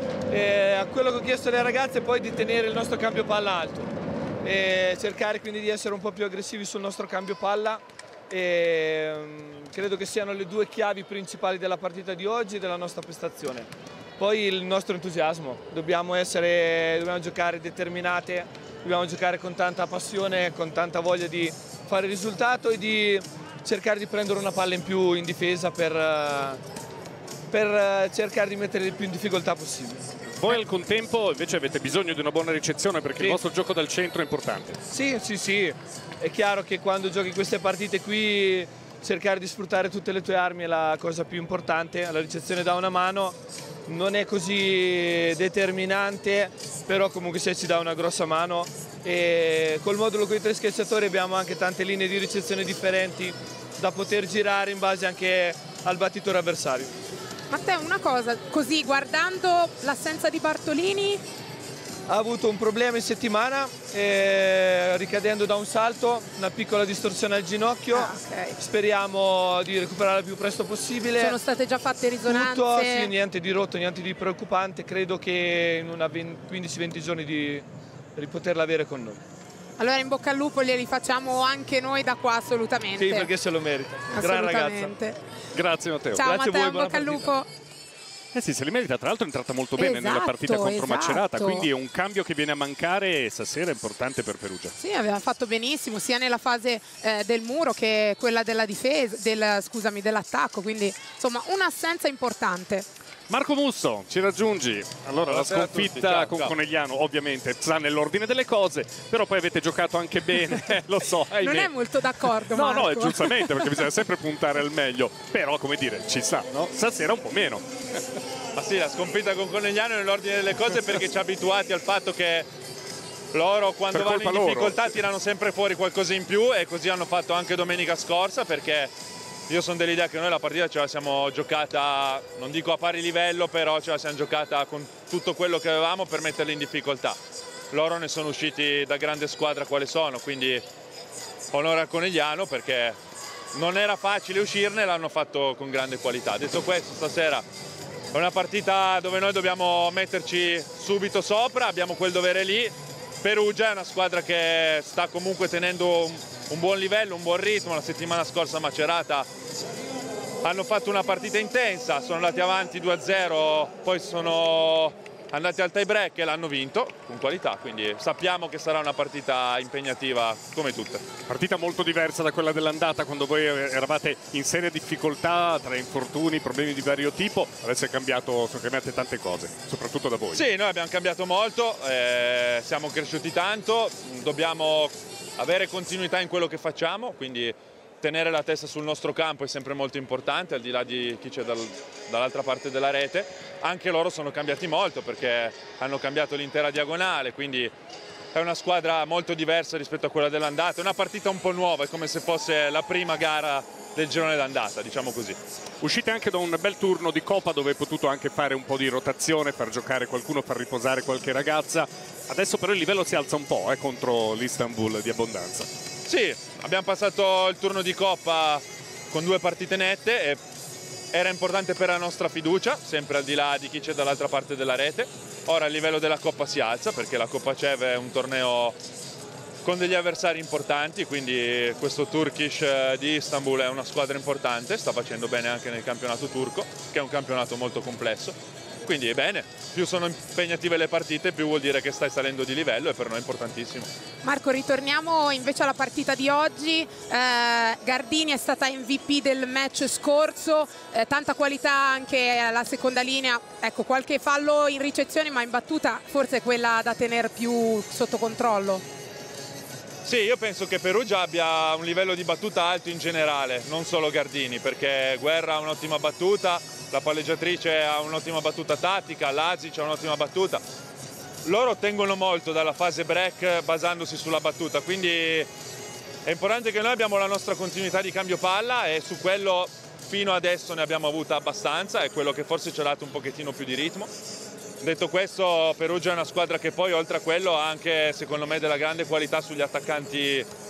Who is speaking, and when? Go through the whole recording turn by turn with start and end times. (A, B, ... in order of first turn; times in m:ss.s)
0:00.3-0:26.6 A
0:27.5-0:30.0 A
0:30.3-0:34.8 B
0:34.9-0:56.9 A
0:57.5-1:01.2 C
1:02.1-1:11.4 A
1:07.9-1:08.6 C
1:11.2-1:13.1 C
1:12.2-1:19.2 A
1:19.8-1:23.3 C
1:23.0-1:24.9 A
1:24.1-1:25.2 C
1:25.5-1:26.3 B
1:26.1-1:27.5 C
1:26.2-1:27.3 A
1:28.3-1:34.7 B
1:29.8-1:31.7 C
1:34.8-1:42.8 C
1:43.3-1:57.6 B
1:45.2-1:46.5 D
1:51.4-1:53.7 C
1:58.5-2:02.5 D
2:03.3-2:08.9 D
2:03.9-2:04.9 B
2:09.5-2:17.2 D
2:17.7-2:20.6 D
2:21.5-2:23.0 D
2:23.5-2:27.4 D
2:28.1-2:39.3 D
2:40.4-2:51.0 D
2:51.3-3:00.4 B
3:00.3-3:17.7 D
3:18.3-3:25.4 D
3:25.8-3:35.7 B
3:36.0-3:40.4 D
3:41.1-3:48.8 D
3:49.6-4:03.9 D
4:04.2-4:18.8 C
4:20.0-4:30.6 D
4:31.4-4:35.5 D
4:36.2-4:44.1 D
4:44.8-4:50.5 D